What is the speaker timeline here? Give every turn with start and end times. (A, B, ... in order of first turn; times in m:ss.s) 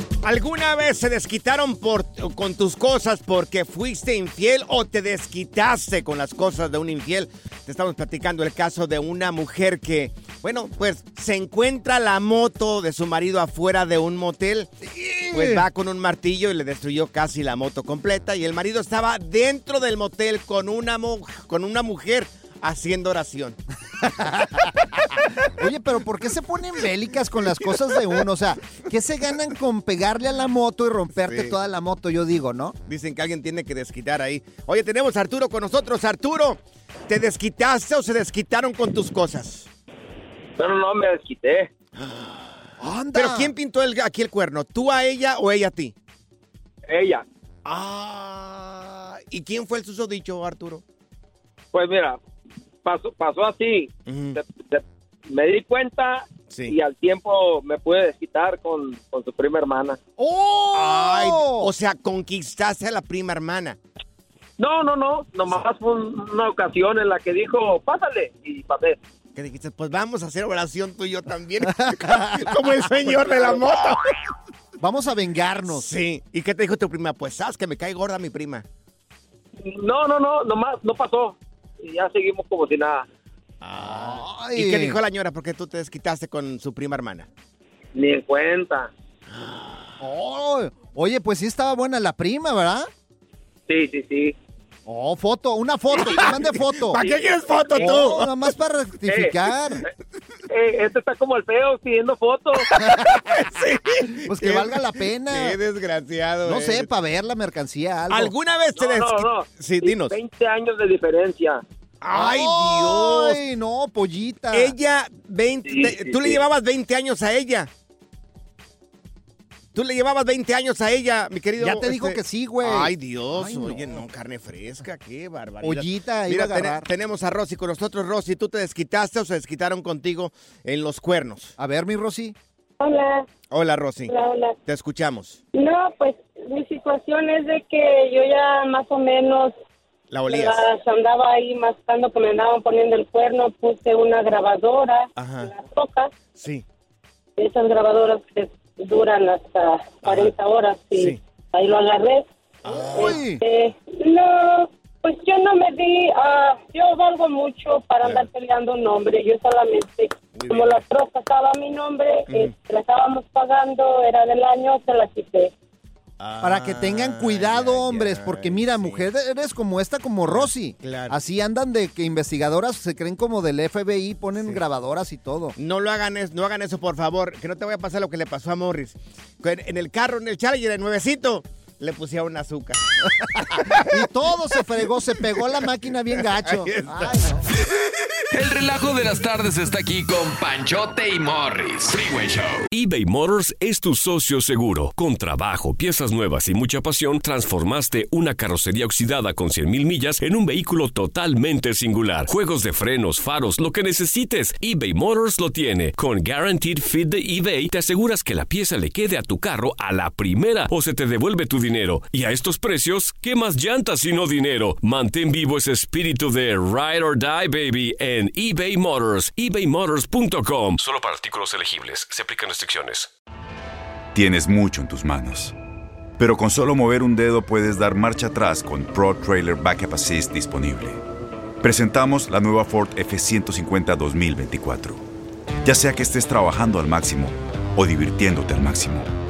0:00.2-0:14.7 A
0:14.8-0:15.6 B
0:15.3-0:23.6 A
0:24.0-0:24.7 B
0:25.6-0:32.8 B
0:31.2-0:31.5 A
0:32.9-0:39.7 A
0:40.6-0:41.7 C
0:42.0-0:45.9 A
0:42.8-0:43.5 B
0:46.9-0:47.2 C
0:47.6-0:50.8 A
0:51.7-0:52.2 C
0:52.8-1:00.0 C
0:54.1-0:54.4 A
0:56.5-0:56.8 A
1:00.2-1:01.7 B
1:00.7-1:03.8 A
1:04.6-1:09.0 C
1:09.3-1:14.0 A
1:11.6-1:13.3 B
1:14.8-1:15.9 B
1:15.7-1:18.6 A
1:19.6-1:23.1 C
1:23.6-1:27.3 A
1:23.8-1:25.0 B
1:27.9-1:28.9 C
1:29.3-1:29.9 A
1:30.0-1:32.9 B
1:33.7-1:34.3 C
1:34.8-1:37.0 B
1:35.9-1:38.3 A
1:37.0-1:37.3 C
1:37.7-1:39.8 B
1:39.1-1:39.4 C
1:40.5-1:42.7 C
1:42.7-1:46.9 A
1:42.8-1:43.1 B
1:44.3-1:45.6 B
1:46.4-1:48.3 B
1:48.1-1:50.2 A
1:48.8-1:51.6 C
1:52.0-1:53.4 A
1:52.1-1:54.7 B
1:54.5-1:57.7 A
1:55.6-1:56.4 C
1:59.7-2:11.5 A
2:01.6-2:04.0 B
2:05.6-2:06.9 B
2:11.6-2:12.4 B
2:12.8-2:13.2 D
2:13.5-2:15.4 A
2:14.1-2:14.6 D
2:15.5-2:19.5 D
2:20.1-2:20.7 A
2:20.3-2:26.1 D
2:25.2-2:25.5 A
2:26.4-2:26.6 A
2:27.4-2:32.3 D
2:30.0-2:30.3 A
2:32.6-2:33.2 A
2:32.9-2:33.4 B
2:32.9-2:45.5 D
2:38.0-2:38.3 A
2:40.3-2:40.8 A
2:42.3-2:42.5 A
2:46.2-2:49.1 A
2:46.4-2:55.5 B
2:50.2-2:51.2 A
2:54.4-2:54.6 A
2:55.6-3:02.8 A
3:03.3-3:03.9 A
3:03.5-3:07.4 B
3:06.4-3:07.2 A
3:08.3-3:12.6 E
3:12.7-3:43.1 F
3:44.1-3:45.5 G
3:46.2-3:51.0 G
3:51.6-3:55.0 G
3:55.6-3:59.1 G